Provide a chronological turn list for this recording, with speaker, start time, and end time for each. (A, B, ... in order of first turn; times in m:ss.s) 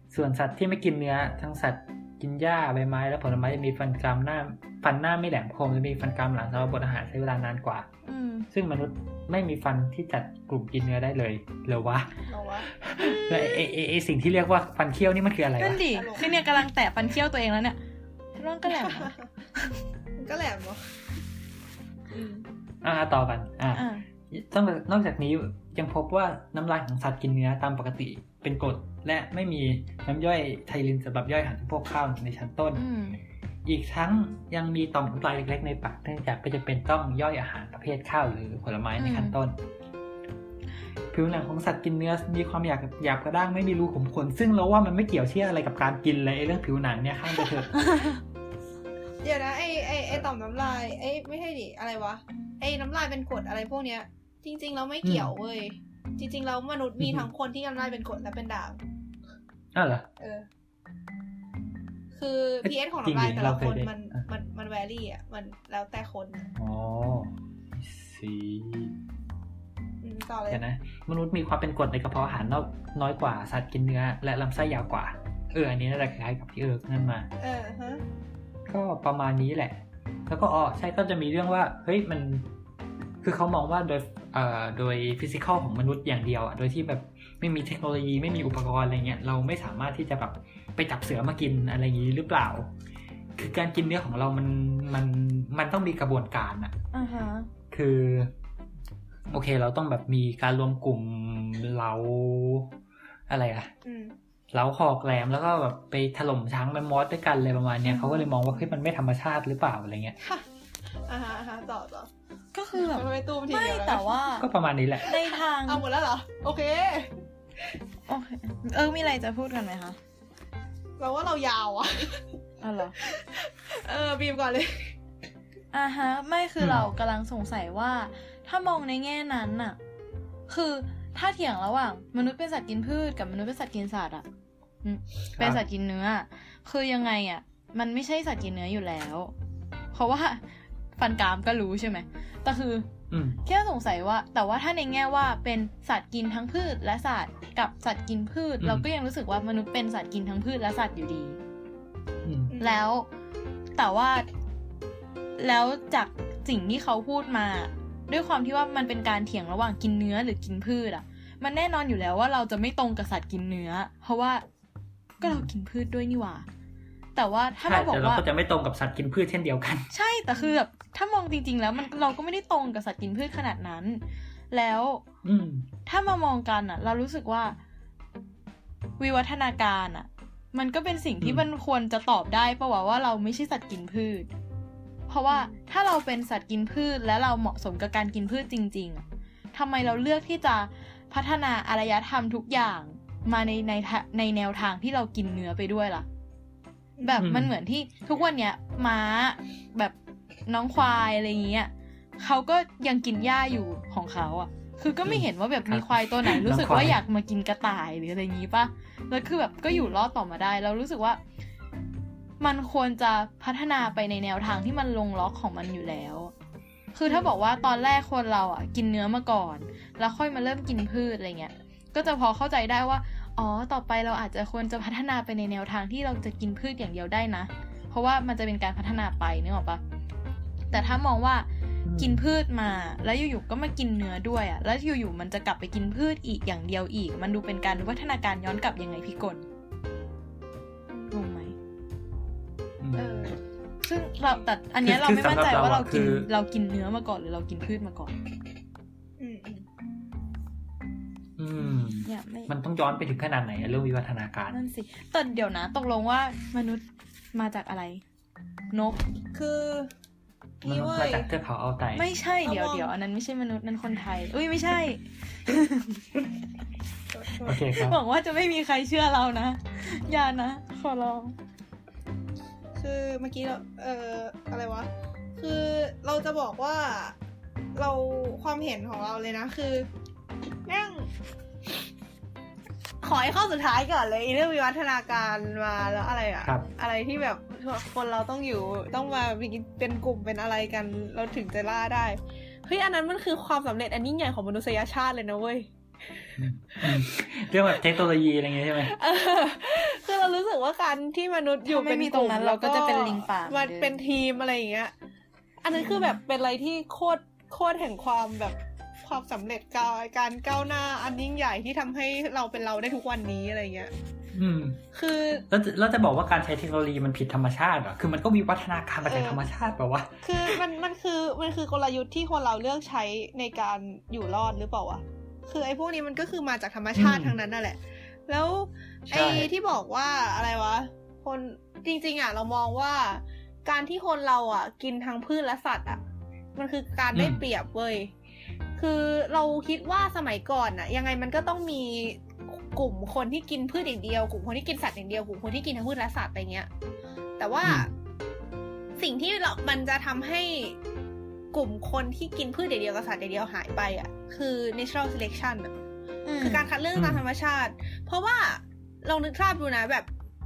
0:00.1-0:07.9 A
0:08.0-0:08.5 B
0:08.5-0:12.1 A
0:12.3-0:12.7 C
0:12.7-0:15.9 A
0:13.0-0:13.7 B
0:15.6-0:17.8 B
0:15.9-0:16.3 C
0:18.4-0:19.7 B
0:18.8-0:19.2 C
0:20.2-0:20.8 C
0:22.1-0:22.4 C
0:22.8-0:32.8 A
0:23.7-0:24.0 B
0:32.7-0:33.2 B
0:33.6-0:39.6 A
0:39.0-0:39.3 B
0:41.1-0:47.9 A
0:47.7-0:48.2 B
0:49.2-0:58.8 C
0:55.0-0:55.3 A
0:57.0-0:57.3 A
0:59.7-1:00.1 A
1:00.2-1:00.4 C
1:02.1-1:06.5 C
1:02.6-1:04.2 A
1:06.6-1:09.0 A
1:10.0-1:10.6 C
1:10.5-1:17.3 A
1:17.4-1:18.0 C
1:18.7-1:22.5 A
1:23.2-1:32.7 A
1:33.4-1:36.8 A
1:36.9-1:37.5 B
1:37.7-1:38.3 A
1:39.3-1:42.7 A
1:43.3-1:43.7 A
1:43.8-1:44.1 C
1:44.5-1:50.2 A
1:47.9-1:48.2 B
1:47.9-1:48.3 C
1:51.1-1:52.1 C
1:52.5-1:54.5 B
1:52.7-1:54.2 C
1:54.4-1:55.1 A
1:55.0-1:55.8 B
1:55.1-1:57.1 C
1:58.1-2:00.0 B
2:01.0-2:02.2 C
2:02.6-2:03.0 B
2:03.0-2:04.9 C
2:05.7-2:09.8 B
2:10.5-2:14.2 B
2:14.8-2:19.3 B
2:19.9-2:20.4 B
2:21.0-2:22.9 B
2:23.1-2:23.4 A
2:23.4-2:31.4 B
2:28.6-2:28.8 A
2:32.2-2:32.5 A
2:32.5-2:32.8 C
2:32.6-2:33.1 B
2:33.8-2:34.3 B
2:35.4-2:44.4 B
2:45.2-2:46.4 B
2:45.2-2:45.5 A
2:47.2-2:48.2 B
2:47.7-2:49.9 A
2:49.9-2:55.0 B
2:55.2-2:55.7 A
2:55.8-2:57.6 B
2:59.0-3:04.3 B
3:01.2-3:01.4 A
3:05.1-3:16.0 B
3:05.3-3:05.5 C
3:17.0-3:17.2 C
3:17.0-3:19.9 B
3:17.2-3:17.5 A
3:20.5-3:31.2 B
3:25.0-3:27.0 A
3:29.7-3:30.0 C
3:32.4-3:36.3 B
3:36.9-3:49.8 B
3:50.7-3:59.4 B
3:50.7-3:51.0 C
3:51.8-3:52.2 A
4:01.1-4:01.5 B
4:02.8-4:03.3 A
4:02.9-4:03.4 C
4:03.8-4:08.1 B
4:04.8-4:06.3 A
4:09.2-4:09.6 C
4:11.4-4:14.6 A
4:12.0-4:12.5 B
4:14.5-4:16.8 B
4:17.3-4:18.0 B
4:18.7-4:19.0 B
4:19.3-4:19.9 C
4:20.6-4:21.3 C
4:20.6-4:22.1 A
4:21.9-4:26.1 B
4:22.4-4:22.9 C
4:27.1-4:27.6 C
4:27.4-4:28.0 A
4:27.6-4:31.3 B
4:32.8-4:37.1 C
4:37.7-4:39.9 C
4:40.6-4:41.1 C
4:43.0-4:55.7 C
4:46.4-4:46.7 A
4:56.4-4:59.0 A
4:56.7-4:57.0 C
4:58.8-5:04.9 C
5:01.6-5:04.0 B
5:05.6-5:13.9 C
5:05.8-5:06.2 B
5:14.3-5:14.8 A
5:14.9-5:15.4 C
5:15.5-5:20.6 A
5:19.0-5:19.4 C
5:20.2-5:36.0 C
5:26.9-5:27.4 A
5:29.1-5:29.5 A
5:36.5-5:38.1 C
5:37.1-5:37.4 A
5:38.8-5:46.7 C
5:47.4-5:47.9 C
5:49.0-5:50.8 C
5:51.5-5:55.7 C
5:56.2-5:56.7 B
5:56.4-6:00.1 C
5:56.9-5:57.2 A